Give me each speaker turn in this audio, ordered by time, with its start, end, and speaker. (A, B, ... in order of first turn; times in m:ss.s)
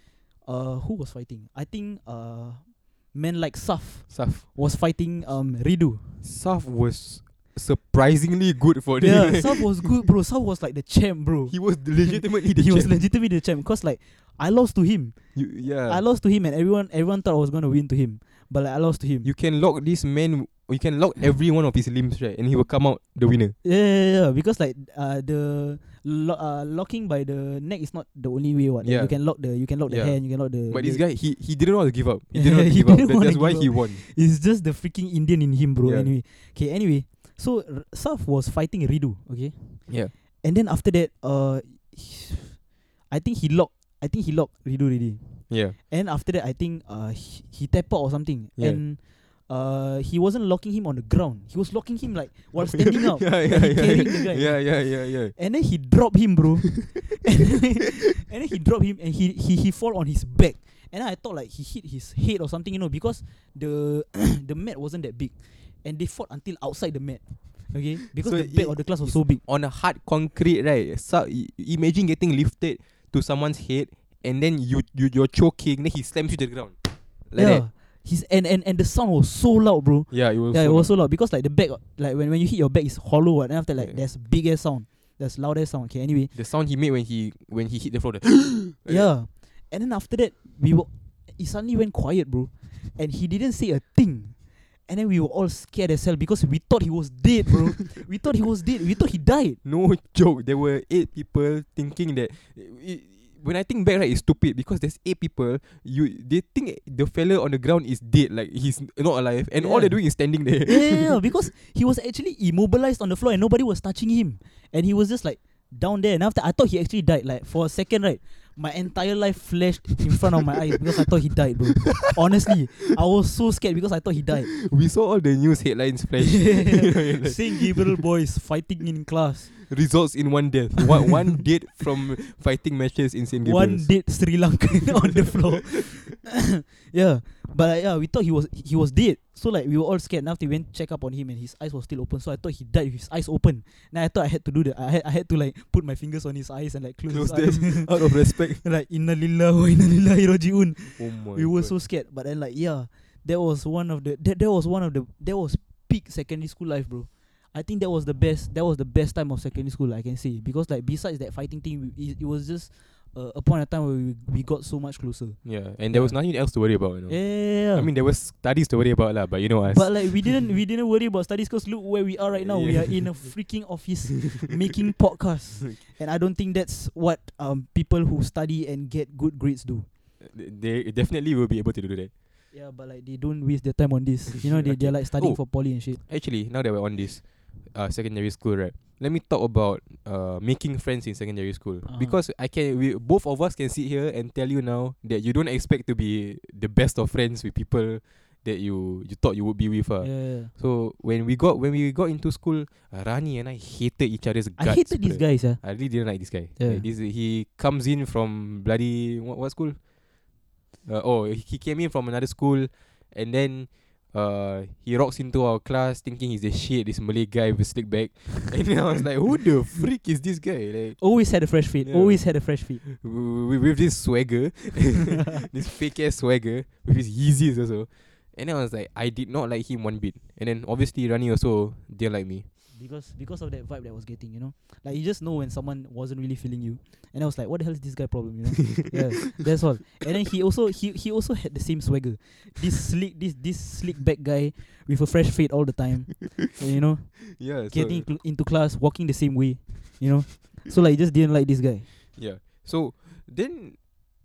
0:00.3-0:06.2 A
0:04.1-0:04.4 B
0:06.2-0:09.9 B
0:09.0-0:15.4 A
0:11.5-0:13.0 B
0:15.4-0:16.0 B
0:15.9-0:19.3 A
0:19.2-0:23.5 B
0:23.6-0:31.0 A
0:28.8-0:29.2 B
0:29.8-0:34.0 B
0:32.3-1:09.4 A
0:35.8-0:36.1 B
0:39.9-0:40.1 B
0:45.5-0:45.8 B
0:48.6-0:48.8 B
0:52.6-0:55.4 B
1:08.2-1:17.6 B
1:17.4-1:26.3 A
1:20.1-1:20.9 B
1:23.8-1:24.0 B
1:26.3-1:29.1 B
1:28.8-1:39.6 A
1:39.6-1:51.2 B
1:49.6-2:04.5 A
2:01.8-2:02.2 B
2:04.5-2:07.8 B
2:06.2-2:09.6 A
2:09.6-2:13.9 B
2:13.4-2:46.2 A
2:15.0-2:16.0 B
2:27.1-2:28.6 B
2:31.0-2:31.7 B
2:45.4-2:50.5 B
2:47.1-2:47.9 A
2:49.7-2:59.9 A
2:52.4-2:53.3 B
3:00.2-3:02.1 B
3:02.5-3:06.0 A
3:04.4-3:29.8 B
3:11.9-3:12.2 A
3:20.0-3:20.5 A
3:24.6-3:25.6 A
3:26.6-3:26.8 A
3:30.8-3:41.0 B
3:41.0-3:42.8 A
3:41.8-3:52.5 B
3:52.7-4:11.9 A
4:07.4-4:08.1 B
4:12.1-4:13.8 B